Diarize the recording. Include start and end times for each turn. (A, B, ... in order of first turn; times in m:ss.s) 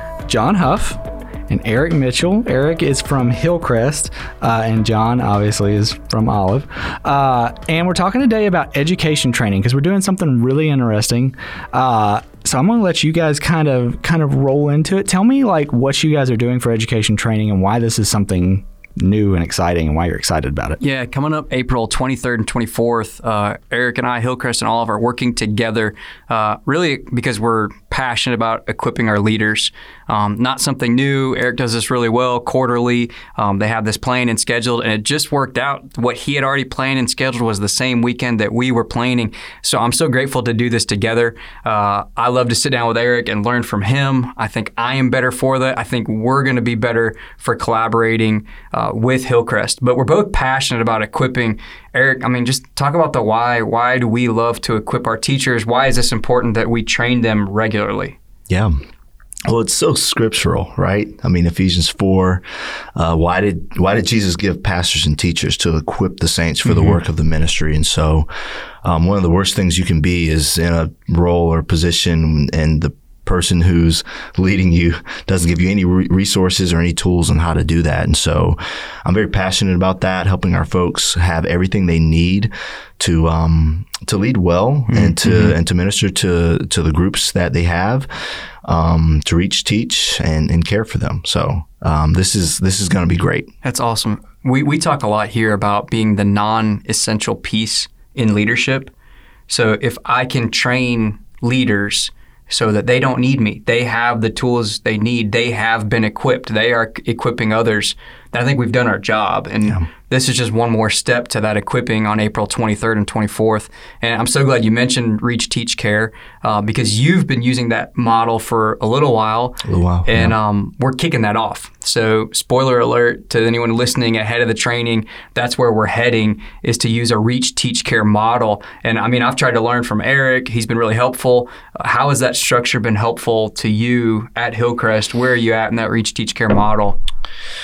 0:00.3-0:20.8 A
0:20.8-0:58.2 B
0:59.5-1:02.4 C
1:03.0-1:08.3 C
1:06.6-1:07.0 B
1:08.8-1:28.1 C
1:24.9-1:25.6 B
1:28.6-1:33.5 C
1:33.6-1:38.9 B
1:39.5-2:17.0 B
1:59.6-2:00.4 C